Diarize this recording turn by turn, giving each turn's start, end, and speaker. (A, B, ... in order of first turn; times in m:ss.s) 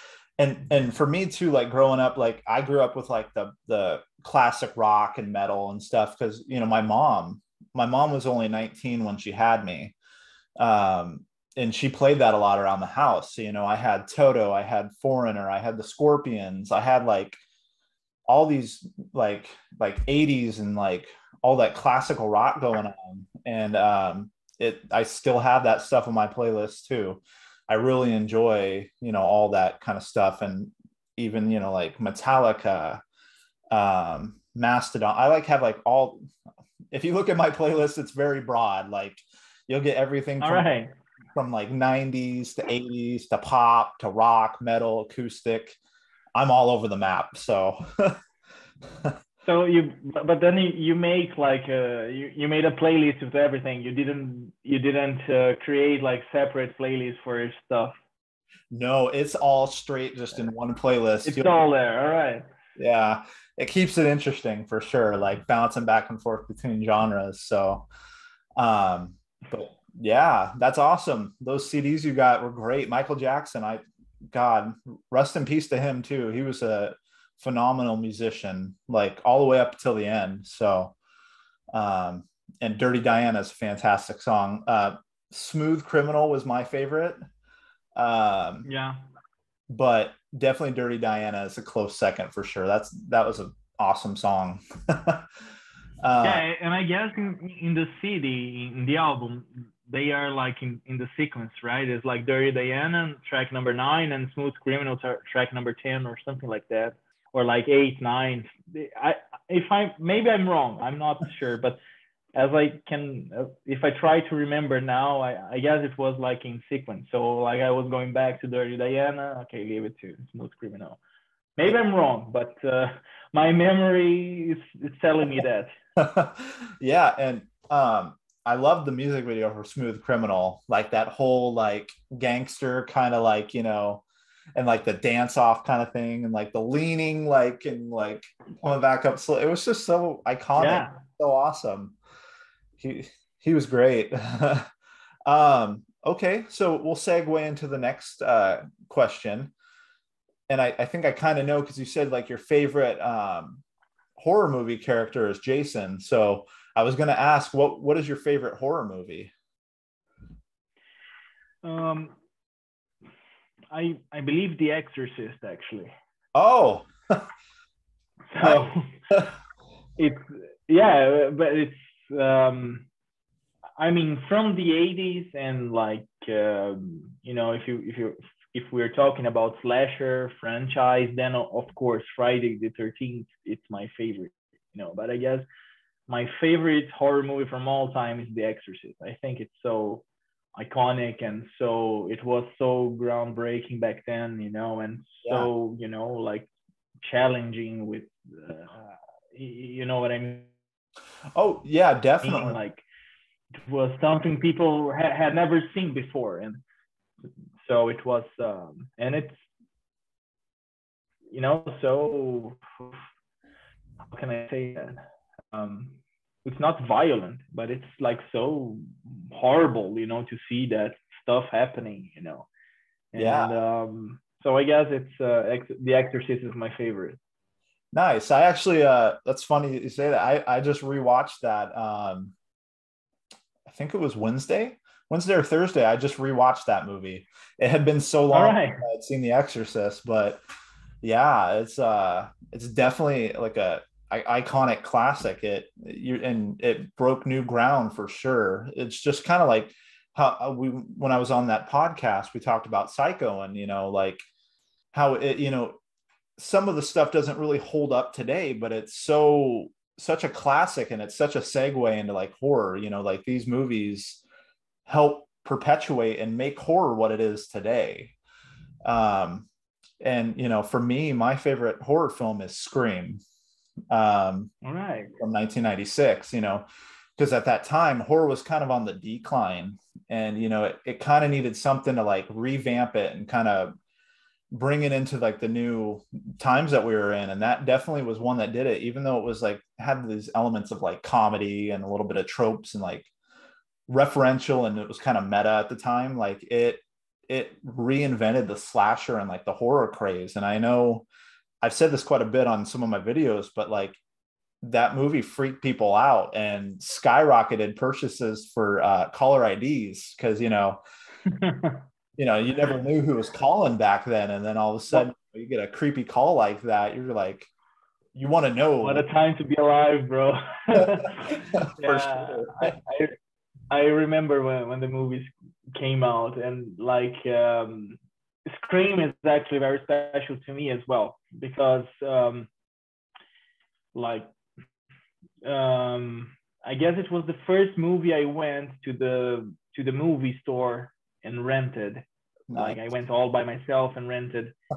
0:00.4-0:10.0 A
0:10.6-0:17.4 A
0:18.3-0:33.0 A
0:33.7-0:36.2 A
0:36.9-0:40.7 A
0:40.4-0:40.9 B
0:41.4-0:45.8 A
0:46.4-0:48.2 A
0:49.4-0:58.0 B
0:58.7-1:01.5 A
1:01.2-1:02.4 B
1:02.8-1:07.9 A
1:08.6-1:21.0 A
1:21.7-1:27.2 A
1:28.0-1:28.7 A
1:28.6-1:29.0 B
1:29.7-1:35.3 A
1:36.0-1:36.4 A
1:36.2-1:51.8 B
1:52.4-2:01.0 B
2:01.6-2:05.7 B
2:06.0-2:14.0 A
2:14.6-2:22.0 A
2:20.6-2:21.0 B
2:22.8-2:24.7 A
2:25.3-2:29.5 A
2:30.5-2:33.6 A
2:34.2-2:39.3 A
2:41.6-2:42.2 B
2:43.7-2:45.9 B
2:46.4-2:47.3 A
2:48.3-2:48.9 B
2:48.4-2:49.3 A
2:50.0-2:52.9 B
2:53.8-3:05.4 B
3:06.1-3:10.0 B
3:10.6-3:16.5 B
3:17.0-3:20.5 B
3:21.4-3:22.6 A
3:22.2-3:22.8 B
3:23.5-3:26.6 B
3:27.6-3:29.4 B
3:31.3-3:33.0 B
3:34.1-3:35.0 B
3:35.5-3:42.5 B
3:43.1-3:47.2 B
3:43.2-3:43.6 A
3:47.9-3:52.4 A
3:53.7-4:00.4 A
3:58.3-3:58.8 B
4:01.0-4:14.2 A
4:14.9-4:15.8 A
4:16.4-4:24.2 A
4:24.9-4:28.2 A
4:28.8-4:29.5 A
4:30.0-4:33.2 A
4:33.9-4:34.5 A
4:34.6-4:35.1 B
4:35.2-4:36.6 A
4:37.2-4:43.8 A
4:44.5-4:53.1 A
4:53.9-5:01.1 A
5:01.6-5:04.0 A
5:04.6-5:10.8 A
5:11.3-5:11.8 B
5:12.2-5:17.5 A
5:18.1-5:19.1 A
5:18.8-5:23.2 B
5:21.5-5:22.8 A
5:23.7-5:32.5 B
5:33.9-5:34.3 B
5:35.4-5:44.6 B
5:42.5-5:42.8 A